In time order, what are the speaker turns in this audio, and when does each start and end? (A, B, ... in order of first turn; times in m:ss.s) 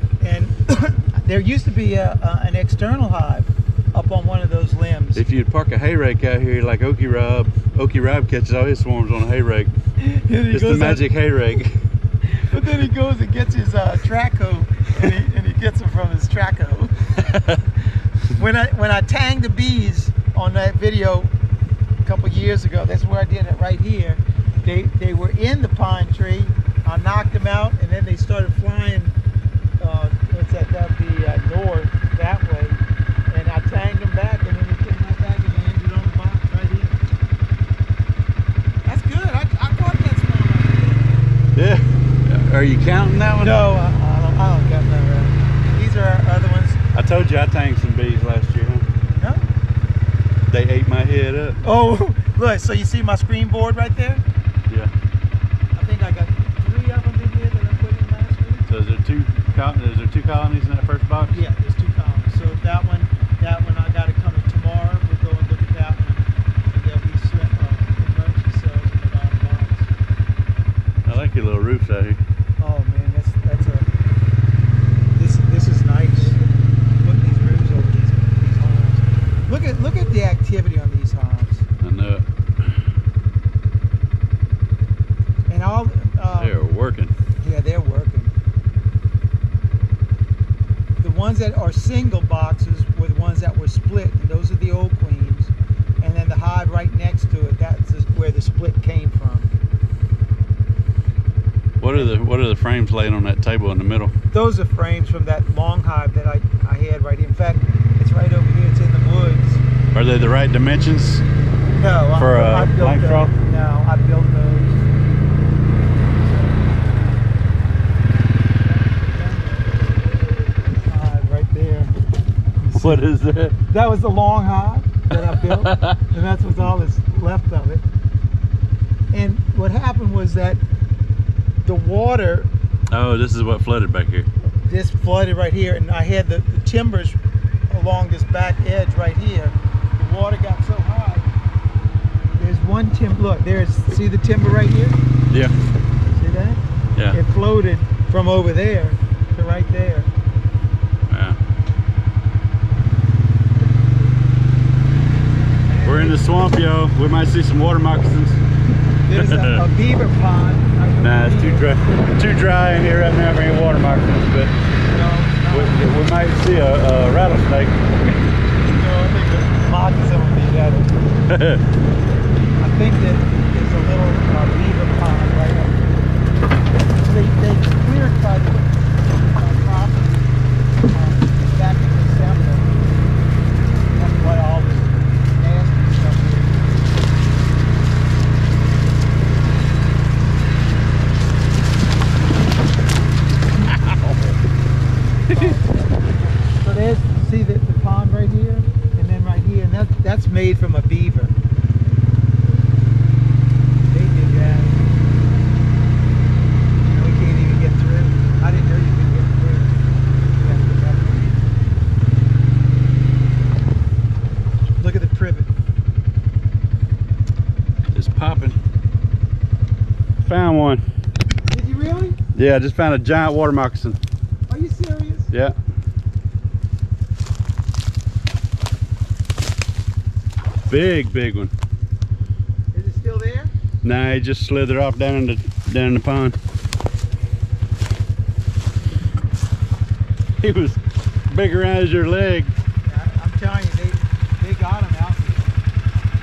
0:00.2-0:05.2 A
0:05.2-0:09.8 B
0:10.0-0:11.1 A
0:10.5-0:11.8 B
0:12.3-0:17.4 A
0:18.3-0:21.3 A
0:22.0-0:29.2 A
0:29.8-0:37.1 A
0:38.8-0:41.2 A
0:41.6-0:43.6 B
0:43.4-0:46.8 A
0:46.9-0:48.9 B
0:49.2-0:49.5 A
0:50.5-0:51.6 B
0:51.6-0:54.2 A
0:55.8-0:58.7 A
0:58.7-1:01.4 B
1:01.3-1:09.9 A
1:11.0-1:12.2 B
1:12.6-1:13.9 A
1:15.1-1:16.5 A
1:17.0-1:21.6 A
1:21.8-1:22.2 B
1:25.5-1:26.6 A
1:26.4-1:27.1 B
1:27.4-1:28.3 A
1:31.0-1:39.5 A
1:41.8-1:44.1 B
1:44.3-1:49.6 A
1:49.9-1:51.2 B
1:51.8-1:54.9 A
1:52.2-1:53.4 B
1:55.9-1:56.9 A
1:58.4-1:59.9 A
2:00.8-2:01.9 A
2:02.6-2:03.1 A
2:02.7-2:03.6 B
2:03.7-2:07.8 A
2:05.1-2:06.0 B
2:09.1-2:10.6 A
2:11.6-2:12.5 A
2:12.9-2:14.3 B
2:14.6-2:17.2 A
2:17.7-2:21.3 A
2:22.4-2:25.0 A
2:26.1-2:30.1 A
2:31.1-2:31.4 B
2:35.7-2:36.4 A
2:35.8-2:38.4 B
2:39.0-2:41.7 A
2:39.1-2:39.7 B
2:41.0-2:44.6 B
2:44.8-2:45.9 A
2:45.5-2:48.2 B
2:48.6-2:51.0 A
2:51.3-2:51.7 B
2:52.6-2:55.9 A
2:56.9-3:02.8 A
3:03.9-3:06.8 A
3:13.6-3:14.4 B
3:15.3-3:15.6 B
3:15.3-3:21.4 A
3:23.8-3:24.9 A
3:26.8-3:31.5 A
3:34.8-3:35.5 A
3:37.9-3:38.6 B
3:40.2-3:40.8 B
3:41.5-3:42.2 A
3:42.3-3:44.0 B
3:44.5-3:45.3 A
3:50.6-3:51.5 B
3:52.7-3:53.5 A
3:53.8-3:56.4 B
4:00.4-4:02.6 B
4:02.8-4:05.5 A